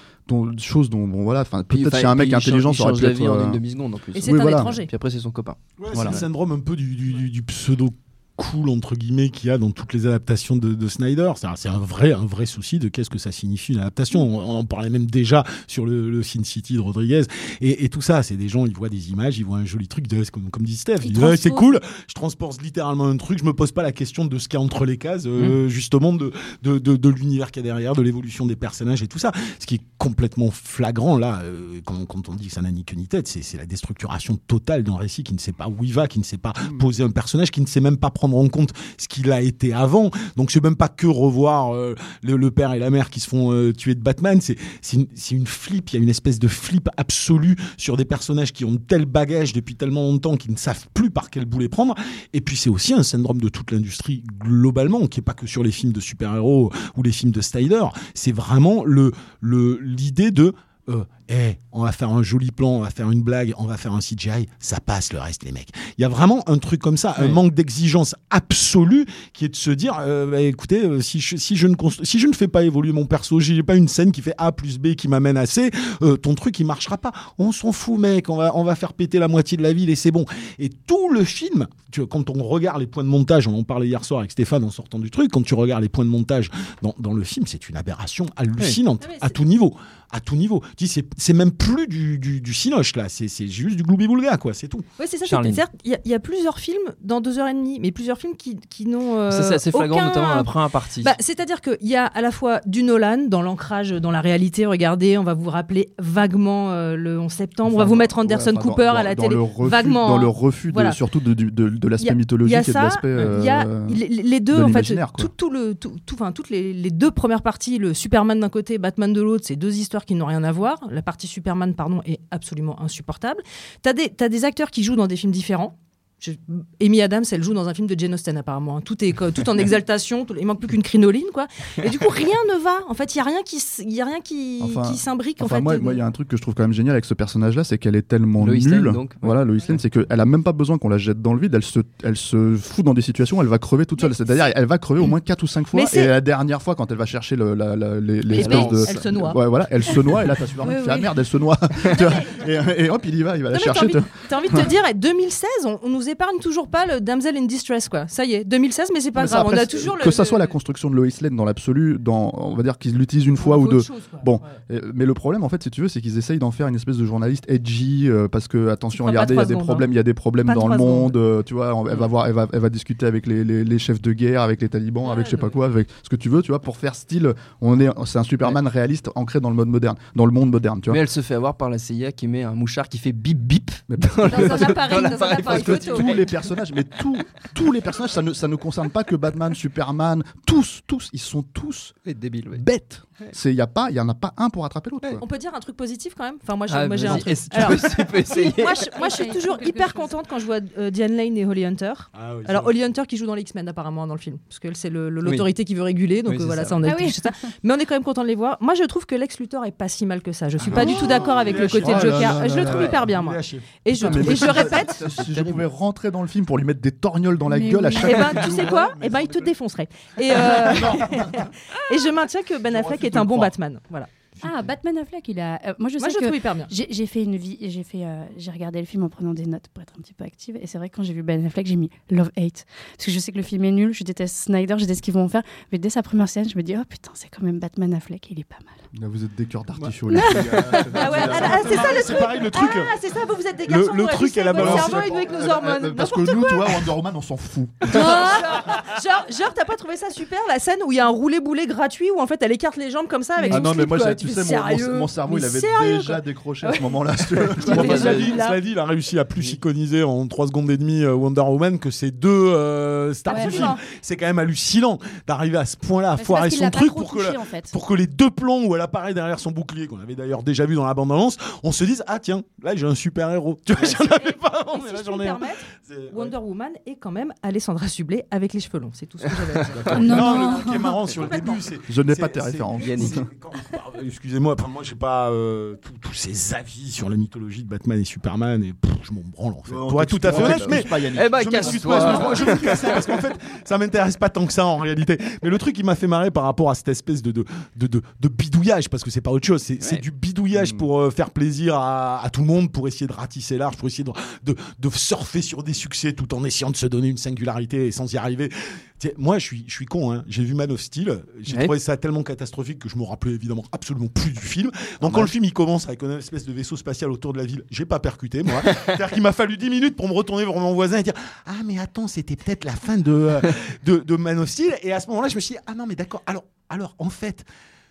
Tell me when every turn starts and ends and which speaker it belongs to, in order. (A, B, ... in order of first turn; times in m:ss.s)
0:00.3-0:03.6 A
0:01.7-0:06.3 B
0:04.1-0:04.9 C
0:04.2-0:04.8 A
0:05.8-1:34.9 D
0:21.0-0:21.8 E
1:07.2-1:07.4 B
1:29.0-1:29.4 C
1:35.0-1:51.0 C
1:35.3-1:35.6 B
1:39.3-1:41.1 B
1:47.6-1:54.0 A
1:52.0-2:16.0 C
1:53.1-1:53.4 B
1:54.5-1:55.3 A
2:14.6-2:34.7 A
2:18.4-2:19.4 B
2:25.7-2:26.1 C
2:28.3-2:29.4 C
2:28.4-2:28.8 E
2:30.6-2:31.1 E
2:33.5-2:40.6 C
2:39.2-3:01.0 A
2:43.4-2:44.5 C
2:48.9-2:49.9 C
2:50.4-2:51.2 C
2:55.1-2:55.5 C
3:00.9-3:06.2 B
3:03.9-3:12.0 A
3:04.2-3:06.3 C
3:04.4-3:05.8 E
3:12.0-3:12.6 B
3:12.5-3:15.2 A
3:15.2-3:35.0 C
3:16.7-3:18.9 B
3:18.4-3:20.2 E
3:22.1-3:22.7 D
3:26.2-3:26.8 B
3:26.8-3:27.3 E
3:30.7-3:31.0 B
3:30.7-3:33.0 A
3:31.1-3:34.8 D
3:33.9-3:38.9 A
3:37.5-3:38.3 E
3:38.0-3:44.1 C
3:38.7-3:39.5 D
3:40.3-3:41.5 A
3:42.7-3:43.5 D
3:44.4-3:44.7 D
3:44.4-3:58.8 E
3:46.0-3:46.7 C
3:58.9-4:02.1 A
4:00.1-4:00.8 E
4:00.7-4:06.9 C
4:01.0-4:03.0 D
4:03.6-4:05.3 D
4:04.6-4:08.6 A
4:07.9-4:18.6 C
4:13.4-4:13.7 E
4:13.5-4:18.2 A
4:17.7-4:36.4 D
4:17.8-4:18.3 B
4:23.3-4:23.8 C
4:23.3-4:23.6 E
4:26.2-4:27.7 E
4:33.8-4:41.7 C
4:39.2-4:40.1 B
4:39.8-5:27.5 D
4:40.0-4:40.9 E
4:41.9-4:43.3 A
4:42.8-4:43.2 B
4:49.7-4:52.8 A
4:50.3-4:53.2 B
4:59.8-5:00.0 B
5:00.5-5:00.9 A
5:11.5-5:11.7 B
5:15.0-5:15.3 B
5:18.7-5:19.0 B